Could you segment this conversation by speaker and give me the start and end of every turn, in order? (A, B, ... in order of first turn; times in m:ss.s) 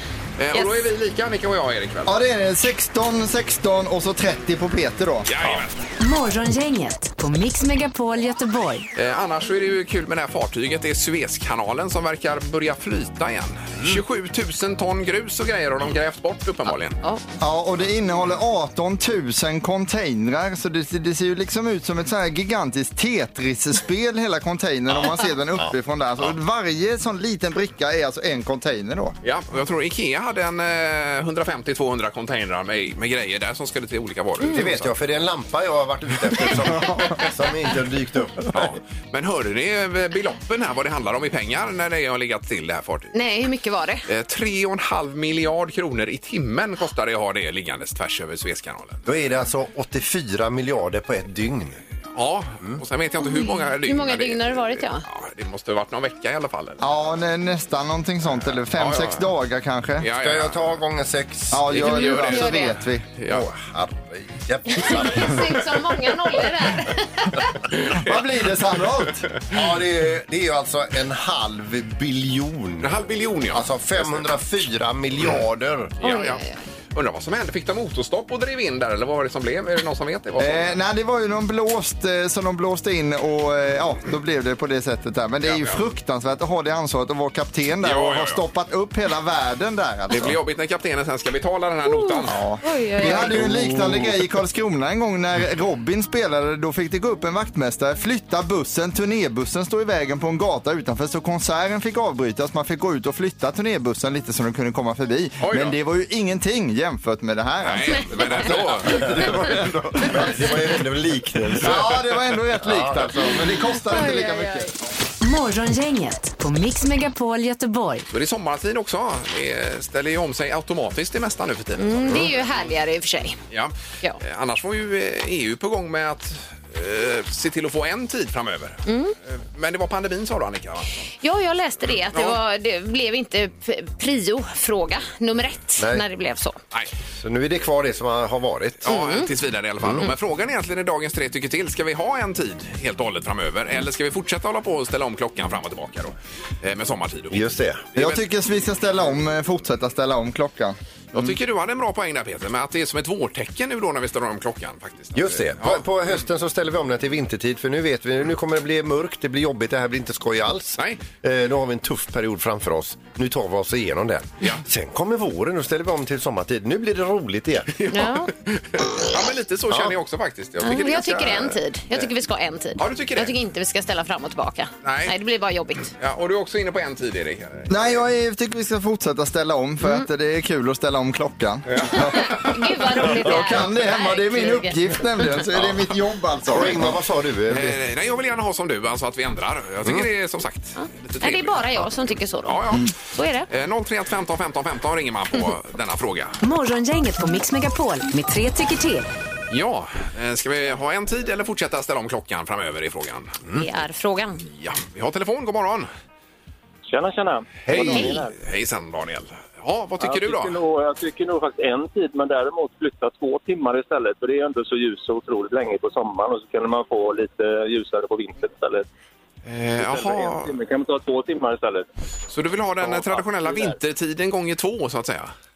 0:00.4-0:02.2 A
0:00.5-0:00.8 B
0:02.0-0:05.3 C
0:05.3-0:05.8 A
0:06.0-0:08.9 D
0:08.9-0:17.0 A
0:17.4-0:29.1 C
0:29.2-0:34.9 A
0:34.5-0:38.8 E
0:38.5-0:43.1 A
0:43.1-0:44.0 B
0:44.1-0:49.0 A
0:49.0-0:51.8 E
0:52.1-0:56.8 A
0:53.2-0:55.0 B
0:56.8-1:00.1 C
0:58.6-0:59.3 A
1:00.0-1:00.7 A
1:00.2-1:01.7 E
1:01.5-1:03.1 C
1:01.7-1:03.4 A
1:02.0-1:02.8 B
1:03.2-1:05.6 E
1:04.7-1:07.5 B
1:07.7-1:08.2 A
1:07.9-1:09.3 C
1:09.5-1:12.9 E
1:12.8-1:14.3 A
1:13.5-1:15.9 E
1:16.0-1:20.8 A
1:16.0-1:16.5 B
1:20.4-1:30.4 C
1:25.4-1:25.8 A
1:27.8-1:28.4 A
1:30.1-1:32.4 A
1:31.8-1:33.4 B
1:32.3-1:50.0 C
1:33.4-1:34.0 E
1:45.4-1:45.8 A
1:47.6-1:49.6 A
1:48.8-1:53.4 E
1:51.6-1:54.7 C
1:53.8-1:54.7 B
1:55.2-1:58.0 D
1:58.1-2:02.4 A
2:01.8-2:03.4 B
2:03.5-2:11.1 A
2:08.8-2:09.1 B
2:11.2-2:16.6 B
2:12.1-2:12.4 A
2:17.2-2:18.9 E
2:18.8-2:28.2 A
2:18.9-2:19.3 B
2:19.8-2:20.1 E
2:27.3-2:27.8 E
2:27.9-2:30.8 C
2:31.1-2:35.8 A
2:35.1-2:47.7 E
2:40.8-2:41.0 A
2:47.7-2:51.6 A
2:47.9-2:48.3 B
2:50.6-2:55.9 B
2:52.8-2:53.3 A
2:54.8-2:55.1 A
2:55.9-2:58.0 A
2:57.7-3:07.0 C
3:01.7-3:02.5 A
3:02.1-3:05.4 B
3:06.5-3:07.7 E
3:07.5-3:11.9 A
3:10.8-3:13.5 B
3:12.4-3:12.9 A
3:13.5-3:16.4 A
3:16.4-3:19.1 D
3:19.5-3:23.4 A
3:23.6-3:24.4 B
3:24.5-3:25.9 A
3:26.8-3:28.3 F
3:27.6-3:28.0 E
3:27.7-3:30.6 A
3:27.8-3:28.2 B
3:30.0-3:38.9 F
3:39.4-3:40.5 A
3:39.8-3:41.8 F
3:42.3-3:45.3 A
3:42.8-3:43.8 F